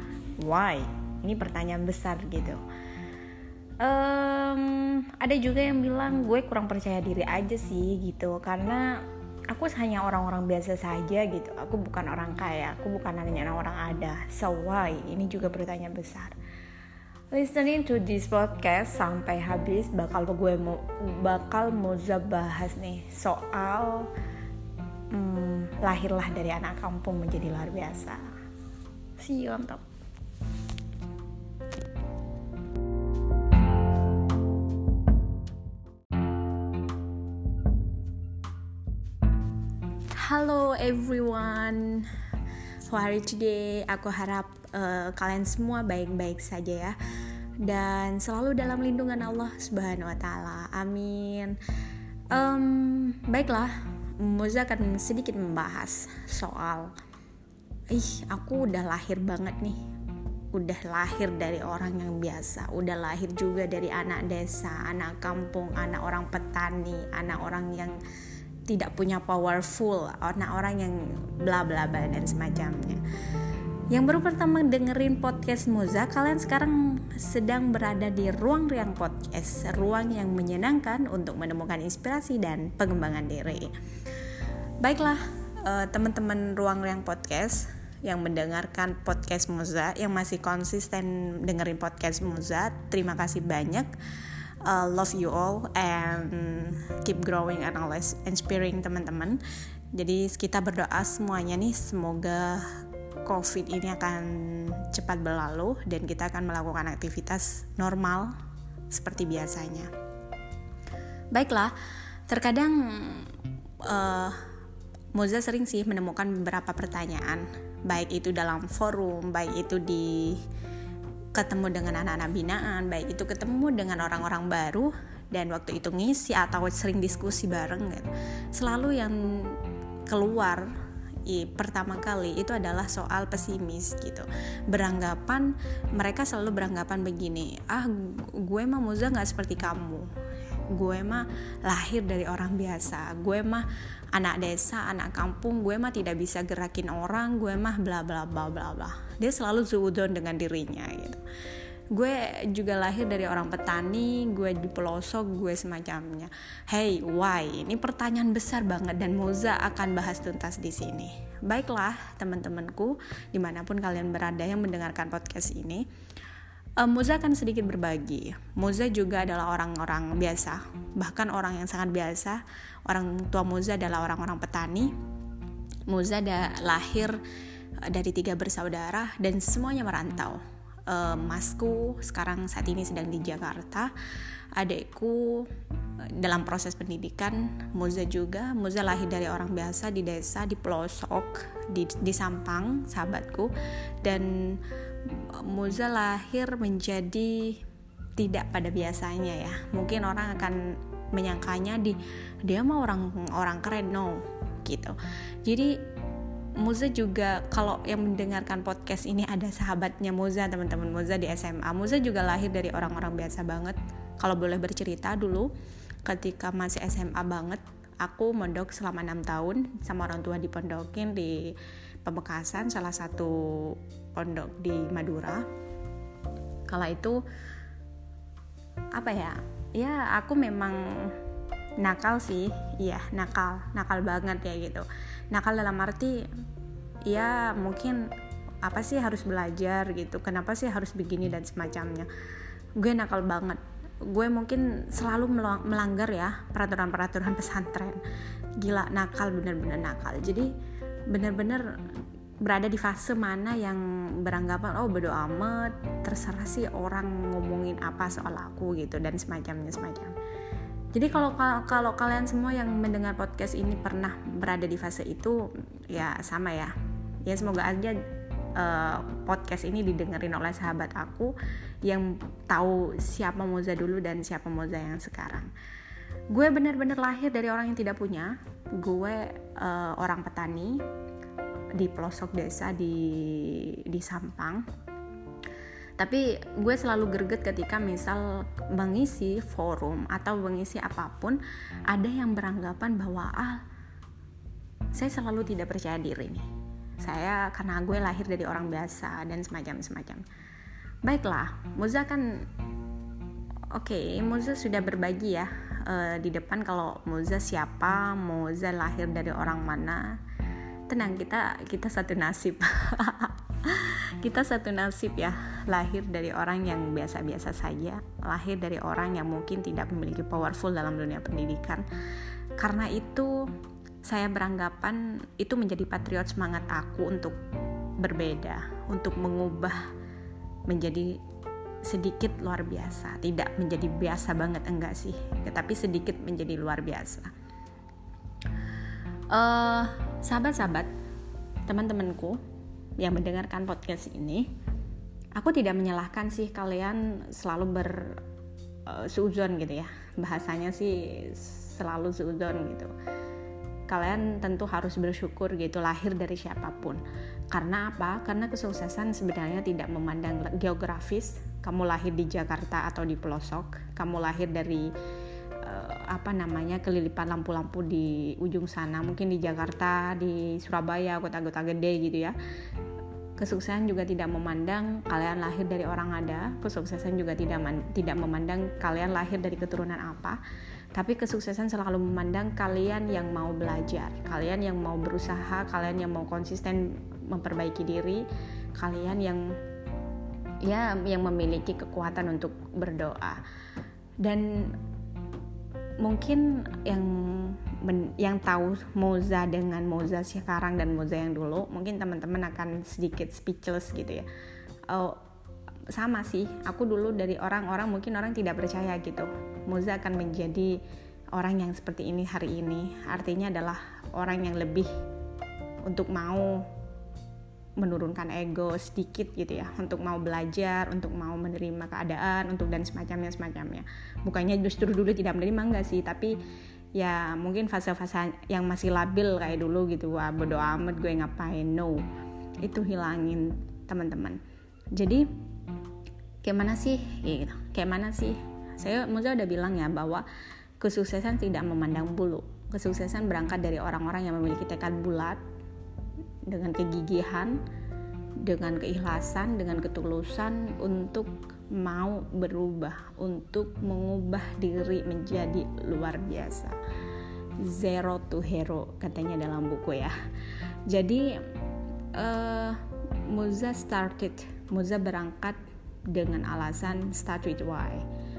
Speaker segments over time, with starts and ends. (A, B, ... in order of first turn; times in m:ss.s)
0:00.4-0:02.6 A
0:03.8-0:16.4 A
0:17.3-0:24.1 A
0:25.1-0:28.2 A
0:29.2-0:29.8 A
0:40.2-0:42.1 A
0:42.8-0:47.0 A
0:47.6-0:51.6 A
0:52.3-0:56.9 A
0:57.9-0:59.8 A
1:00.5-1:08.0 A
1:08.7-1:13.0 A
1:13.9-1:23.7 A
1:24.8-1:33.9 A
1:34.6-1:39.4 A
1:39.9-1:42.7 A
1:43.3-1:48.3 A
1:48.9-1:49.9 A
1:51.3-1:51.7 A
1:52.3-1:53.3 A
1:53.8-1:54.4 A
1:55.2-2:00.4 A
2:01.4-2:09.6 A
2:10.1-2:10.7 A
2:11.3-2:20.1 A
2:20.7-2:31.2 A
2:31.9-2:45.8 A
2:46.8-2:54.9 A
2:55.9-2:57.2 A
2:57.9-3:03.9 A
3:04.6-3:05.5 A
3:06.2-3:17.6 A
3:18.2-3:25.7 A
3:26.6-3:35.5 A
3:36.1-3:45.4 A
3:46.7-3:47.2 A
3:49.0-3:51.2 A
3:51.8-3:56.2 A
3:57.1-3:58.1 A
3:58.6-4:02.1 A
4:02.8-4:08.0 A
4:08.6-4:10.5 A
4:11.1-4:11.8 A
4:12.4-4:20.1 A
4:20.9-4:26.7 A
4:27.3-4:28.0 A
4:28.6-4:35.5 A
4:36.3-4:40.8 A
4:41.8-4:44.6 A
4:46.0-4:53.6 A
4:54.9-4:56.4 A
4:57.0-5:00.2 A
5:01.0-5:02.5 A
5:03.7-5:10.2 A
5:10.9-5:21.8 A
5:22.6-5:23.5 A
5:24.0-5:27.4 A
5:28.0-5:29.8 A
5:30.7-5:31.2 A
5:31.8-5:37.3 A
5:39.3-5:40.9 A
5:41.7-5:42.4 A
5:43.0-5:44.5 A
5:45.4-5:48.2 A
5:48.9-5:52.9 A
5:53.9-6:04.9 A
6:05.6-6:12.4 A
6:13.4-6:20.4 A
6:21.0-6:28.2 A
6:28.8-6:29.6 A
6:30.6-6:33.4 A
6:34.2-6:34.8 A
6:36.0-6:44.3 A
6:44.9-6:45.2 A
6:45.9-6:50.7 A
6:51.4-6:54.9 A
6:55.9-6:56.6 A
6:57.8-7:06.4 A
7:07.0-7:12.0 A
7:12.6-7:14.4 A
7:15.0-7:15.2 A
7:16.4-7:20.3 A
7:20.8-7:25.4 A
7:26.5-7:27.6 A
7:28.4-7:36.8 A
7:37.6-7:40.1 A
7:40.9-7:41.4 A
7:42.2-7:42.8 A
7:43.3-7:45.6 A
7:46.1-7:48.0 A